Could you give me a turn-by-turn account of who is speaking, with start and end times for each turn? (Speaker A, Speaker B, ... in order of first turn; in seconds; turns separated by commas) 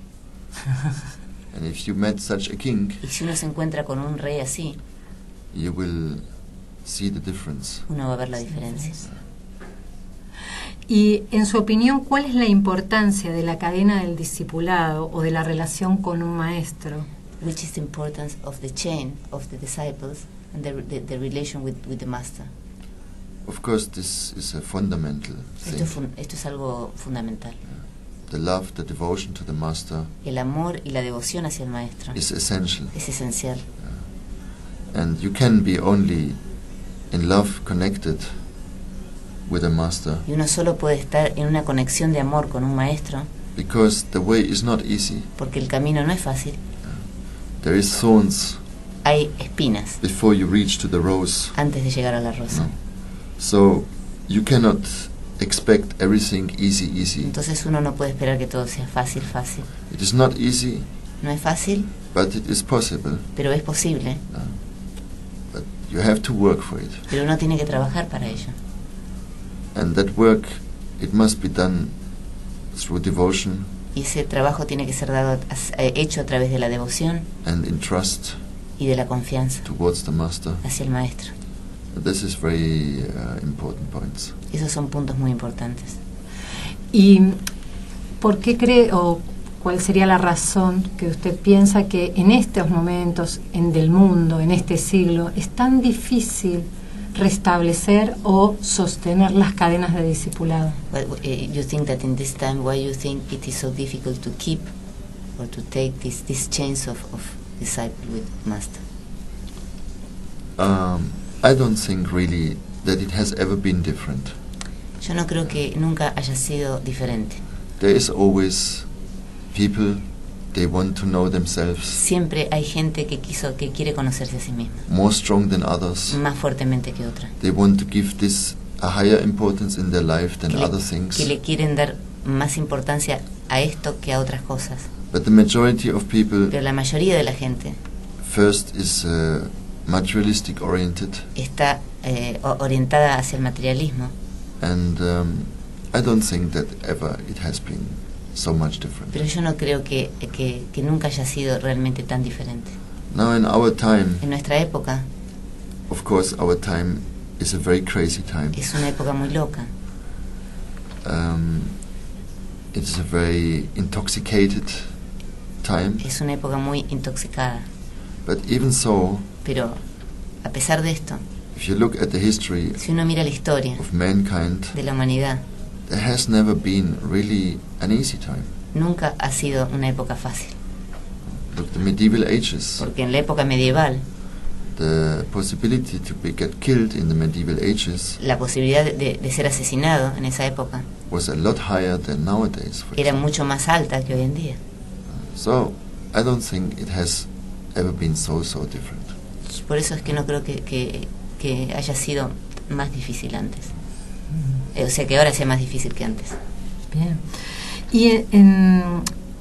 Speaker A: 1.5-3.0, Speaker B: 3.0-4.8, Speaker A: 5.5-6.2, Speaker A: 6.8-7.9, Speaker B: 7.9-9.0, Speaker C: 10.9-17.1, Speaker B: 17.4-22.5, Speaker A: 23.4-26.0, Speaker B: 25.6-27.6, Speaker A: 28.3-30.1, Speaker B: 30.2-32.2, Speaker A: 32.1-32.9, Speaker B: 32.9-33.7, Speaker A: 34.9-36.4, Speaker A: 37.1-38.4, Speaker A: 39.5-40.3, Speaker B: 40.3-43.3, Speaker A: 43.6-45.3, Speaker B: 45.4-46.6, Speaker A: 47.6-48.6, Speaker B: 49.0-50.0, Speaker A: 50.0-51.6, Speaker B: 51.5-52.7, Speaker A: 52.5-52.8, Speaker A: 53.3-57.3, Speaker B: 57.2-59.7, Speaker A: 59.9-60.9, Speaker B: 61.2-61.9, Speaker A: 62.1-63.3, Speaker B: 63.4-64.2, Speaker A: 64.3-64.6, Speaker A: 65.5-67.1, Speaker B: 67.1-68.6, Speaker A: 69.7-72.0, Speaker A: 72.7-73.7, Speaker B: 73.9-77.3, Speaker A: 77.4-78.4, Speaker B: 78.8-79.7, Speaker A: 79.7-80.6, Speaker B: 80.6-81.3, Speaker A: 81.9-84.3, Speaker B: 84.5-86.0, Speaker C: 86.9-87.4, Speaker C: 88.2-100.8, Speaker B: 100.9-104.7, Speaker B: 105.4-108.8, Speaker A: 110.6-114.4, Speaker B: 115.0-117.4, Speaker A: 117.8-118.9, Speaker A: 119.5-122.0, Speaker B: 121.9-124.9, Speaker A: 124.9-126.2, Speaker B: 126.1-127.3, Speaker A: 127.4-131.3, Speaker B: 130.5-134.9, Speaker A: 135.1-136.6, Speaker B: 136.5-137.8, Speaker A: 138.2-141.3, Speaker B: 141.3-144.1, Speaker A: 144.6-149.2, Speaker B: 149.1-152.8, Speaker A: 153.1-154.2, Speaker B: 154.2-155.1, Speaker A: 155.9-158.6, Speaker B: 158.5-159.7, Speaker A: 161.0-161.8, Speaker A: 162.7-164.9, Speaker A: 165.6-166.0, Speaker B: 166.0-167.7, Speaker A: 168.2-169.3, Speaker B: 169.4-169.8, Speaker B: 170.4-171.2, Speaker A: 171.5-172.8, Speaker B: 172.8-173.8, Speaker A: 173.8-174.8, Speaker B: 174.7-175.4, Speaker A: 175.9-178.5, Speaker B: 178.7-180.6, Speaker A: 181.3-182.9, Speaker B: 182.8-184.1, Speaker A: 184.7-188.2, Speaker B: 188.2-190.9, Speaker A: 191.1-193.2, Speaker B: 193.0-194.6, Speaker A: 195.1-199.2, Speaker B: 199.5-203.7, Speaker B: 204.7-206.4, Speaker C: 206.9-209.1